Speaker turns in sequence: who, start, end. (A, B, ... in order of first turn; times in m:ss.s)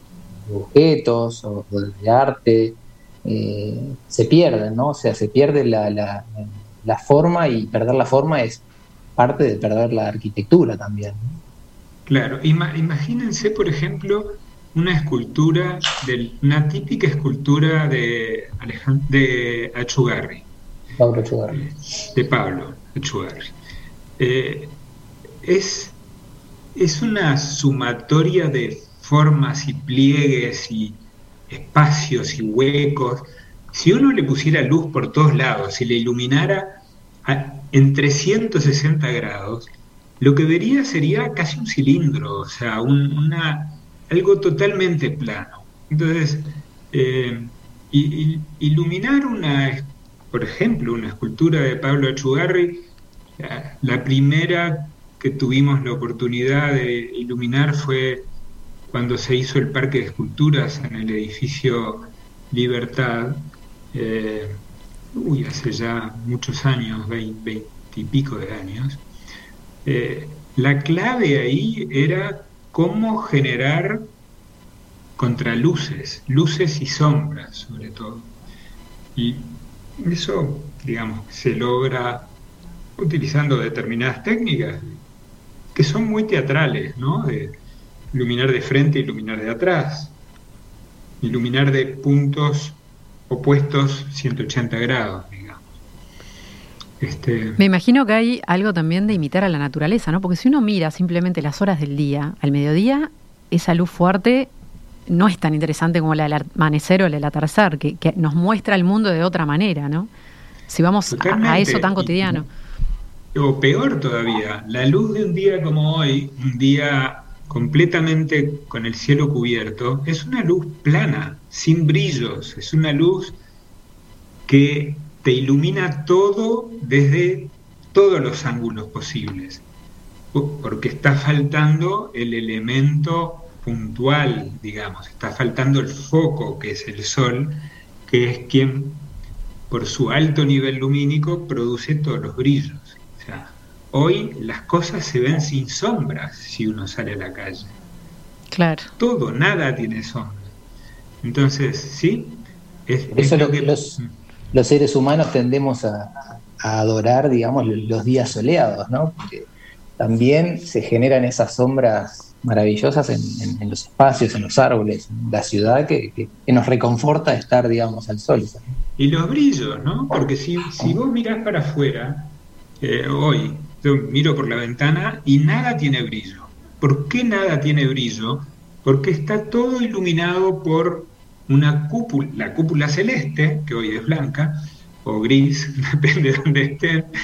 0:00.5-0:08.6 A
0:09.2-0:11.4 A
0:12.1-0:20.5 B
0:21.0-0:21.6 A
0:21.5-0:23.5 B
0:24.2-0:24.8 B
0:25.4-0:26.0 B
0:26.8-0:58.3 B
0:58.9-1:04.6 B
1:05.1-1:09.0 B
1:09.8-1:14.1 B
1:15.2-1:18.3 B
1:19.2-1:22.3 B
1:23.0-1:25.0 B
1:25.7-1:27.6 B
1:28.1-1:30.2 B
1:31.2-1:35.6 B
1:37.0-1:37.6 B
1:37.6-1:44.5 C
1:45.1-1:50.1 C
1:50.7-1:52.5 C
1:51.1-1:52.5 B
1:53.3-2:03.4 B
2:04.5-2:09.6 B
2:10.3-2:19.1 B
2:19.7-2:27.8 B
2:28.5-2:28.9 C
2:29.0-2:30.5 B
2:31.2-2:34.1 B
2:33.1-2:34.0 A
2:34.5-2:39.5 A
2:40.0-2:48.7 A
2:49.0-3:07.1 B